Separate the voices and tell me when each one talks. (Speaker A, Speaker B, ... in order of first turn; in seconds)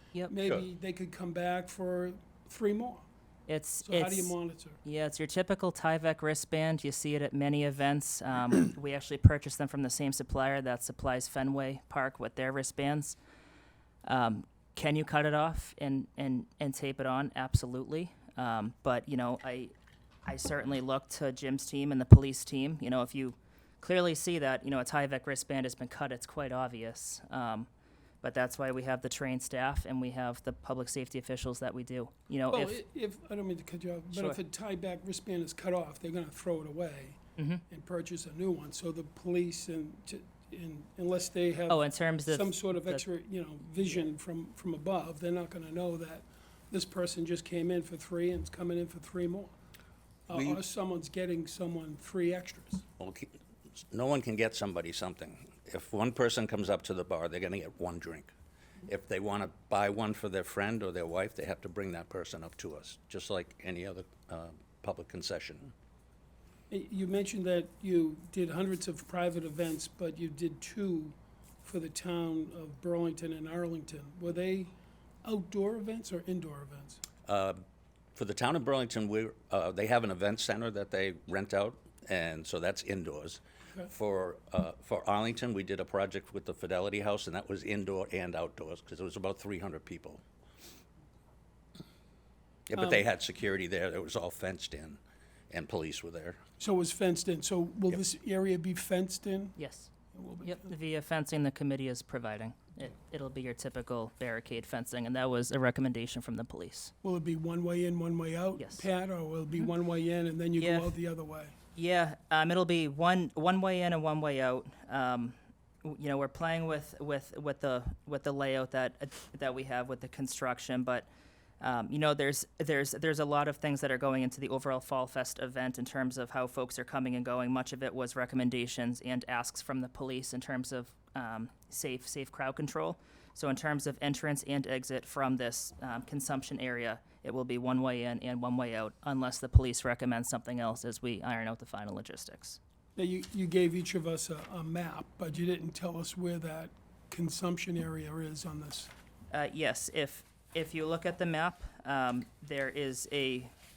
Speaker A: 0.3-3.0, 3.8-4.8, 32.5-37.2, 37.7-49.5, 50.3-52.8, 66.7-74.7, 75.2-77.0, 96.6-99.6, 100.1-100.7, 107.0-111.5, 142.9-148.9
Speaker B: 3.5-13.2, 14.0-19.7, 20.2-27.7, 28.2-32.8, 34.1-34.4, 37.4-37.6, 41.7-43.0, 99.6-99.9, 100.4-106.9, 108.6-108.8, 110.6-110.9, 111.8-121.1, 121.6-142.6, 149.3-153.5
Speaker C: 50.3-50.6, 53.0-53.3, 53.9-58.3, 58.8-65.7, 77.2-77.6, 78.1-90.2, 92.7-95.0, 95.5-96.4